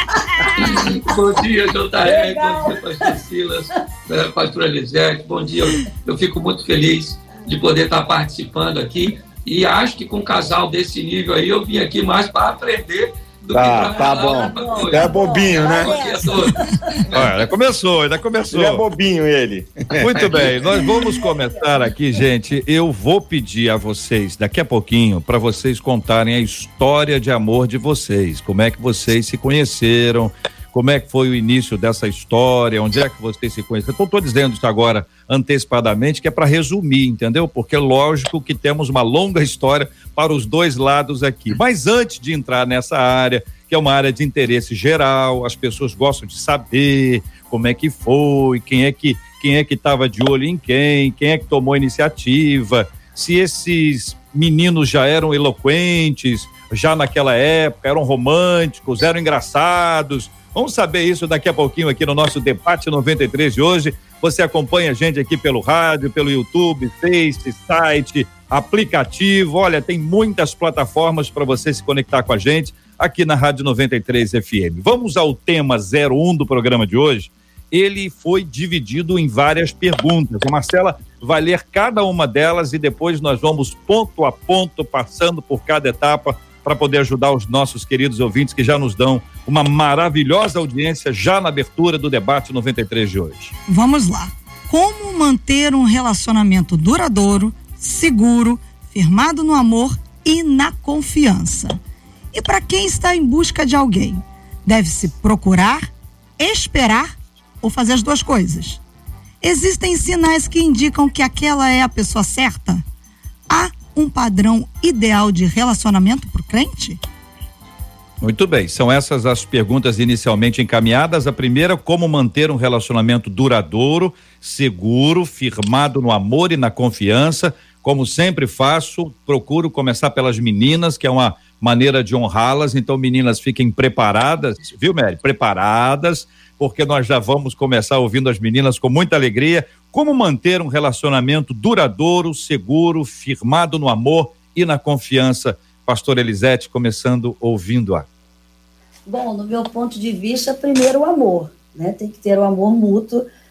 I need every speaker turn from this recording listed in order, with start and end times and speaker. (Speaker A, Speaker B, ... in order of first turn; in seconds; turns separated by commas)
Speaker A: 0.4-0.8, Speaker B: 0.6-16.6, Speaker A: 2.0-2.8, Speaker C: 13.5-16.0, Speaker A: 13.9-17.1, Speaker D: 17.1-18.8, Speaker C: 18.5-20.6, Speaker D: 20.0-93.5, Speaker A: 21.0-21.2, Speaker E: 93.7-101.8, Speaker E: 102.3-108.8, Speaker E: 109.4-112.8, Speaker E: 113.5-117.0, Speaker D: 118.2-148.1, Speaker A: 149.1-153.3